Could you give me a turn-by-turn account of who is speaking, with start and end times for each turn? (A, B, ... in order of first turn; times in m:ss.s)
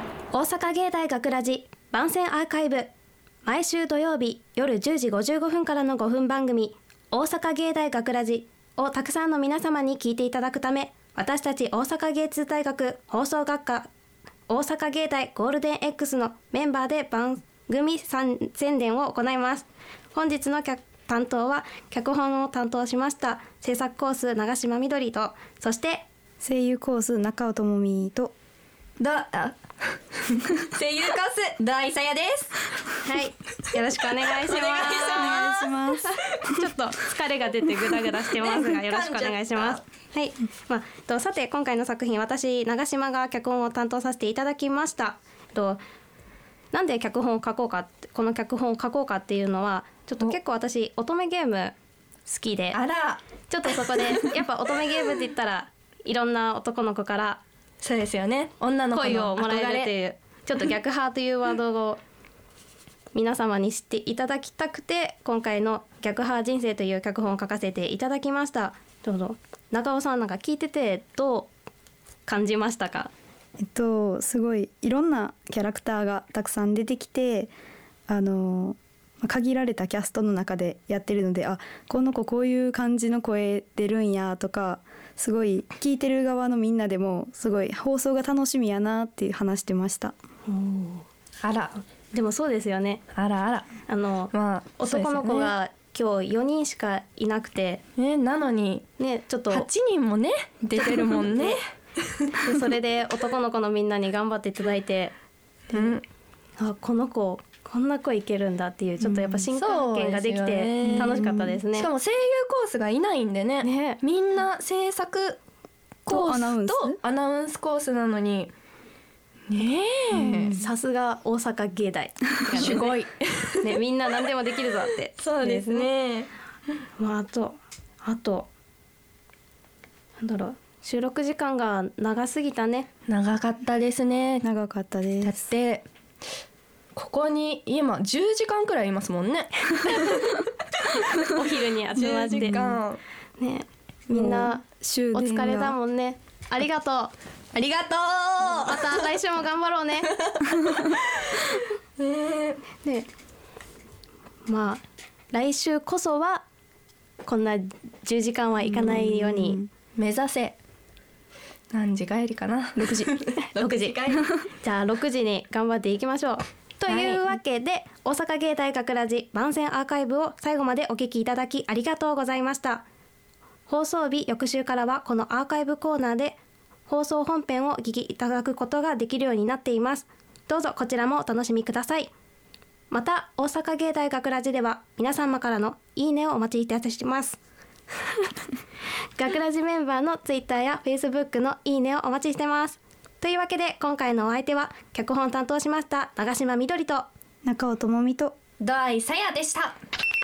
0:00.3-0:02.9 A
0:03.5-0:13.9 A
0:14.5-0:26.1 A
0:26.4-0:28.3 B
0:29.0-0:29.6 C
0:30.3-0:32.6 C
0:33.0-0:45.8 A
0:34.4-0:35.8 C
0:35.0-0:36.7 B
0:38.4-0:39.8 C
0:46.7-0:51.7 A
0:52.3-0:52.8 A
0:52.7-0:54.4 C
0:53.5-0:57.4 A
0:57.8-0:59.9 C
0:58.9-1:02.0 A
1:03.1-1:11.5 A
1:12.3-1:13.1 A
1:13.6-1:17.5 B
1:18.1-1:30.1 B
1:30.5-1:31.0 A
1:31.4-1:31.8 C
1:32.1-1:33.0 A
1:33.1-1:33.7 C
1:33.9-1:37.8 A
1:34.3-1:35.5 C
1:38.0-1:38.9 C
1:39.0-1:39.7 A
1:39.5-1:41.6 C
1:40.8-1:41.6 A
1:42.1-1:42.4 C
1:42.3-1:45.2 A
1:45.7-1:46.0 C
1:46.6-1:51.9 A
1:49.0-1:49.4 B
1:49.5-1:55.4 C
1:50.8-1:51.6 B
1:53.6-1:54.0 A
1:56.1-1:57.0 B
1:56.1-1:58.5 C
1:59.5-2:00.6 C
2:00.1-2:00.6 B
2:00.3-2:03.1 A
2:02.5-2:03.7 C
2:03.6-2:05.9 A
2:05.2-2:06.3 C
2:07.0-2:08.5 A
2:10.2-2:12.9 A
2:13.1-2:14.5 C
2:14.4-2:15.4 B
2:15.2-2:15.9 C
2:17.0-2:20.4 C
2:20.9-2:21.4 C
2:21.2-2:22.8 A
2:21.9-2:23.0 C
2:23.4-2:30.1 A
2:24.1-2:25.8 B
2:28.4-2:28.8 C
2:30.2-2:31.4 C
2:32.0-2:32.6 C
2:32.8-2:33.1 A
2:34.5-2:36.4 A
2:37.2-2:39.6 A
2:38.6-2:39.7 B
2:40.0-2:40.6 C
2:41.7-2:44.3 C
2:42.8-2:43.1 B
2:43.4-2:52.8 A
2:46.9-2:47.2 C
2:53.7-3:02.1 A
3:02.9-3:07.4 A
3:09.2-3:17.1 A
3:17.4-3:18.4 B
3:18.6-3:19.7 C